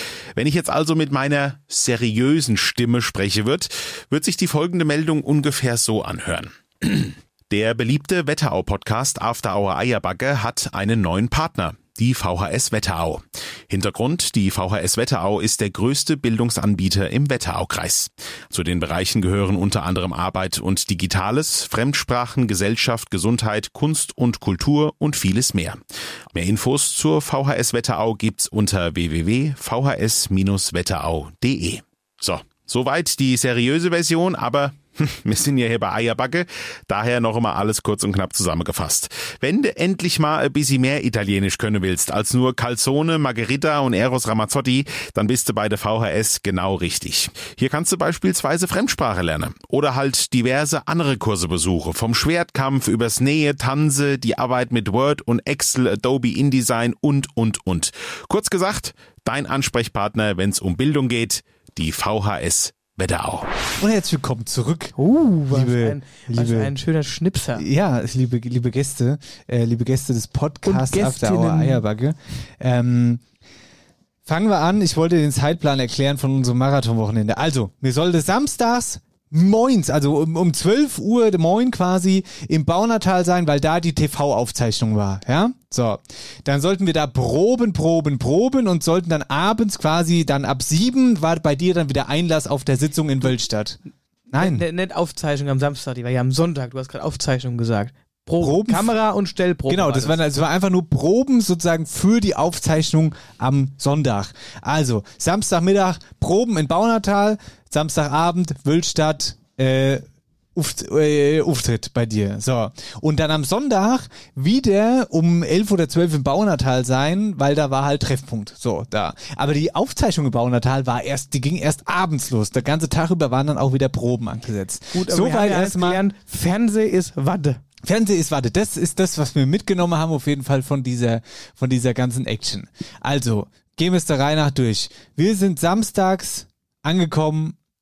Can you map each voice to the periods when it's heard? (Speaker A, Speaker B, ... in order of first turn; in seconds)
Speaker A: 0.3-63.5
Speaker B: 63.8-65.0, 65.5-66.7, 67.6-73.2, 74.2-93.8, 94.3-94.6, 98.4-98.9, 99.7-126.0, 127.8-137.6
Speaker C: 65.0-67.7, 70.7-71.8, 94.3-100.2, 124.9-127.6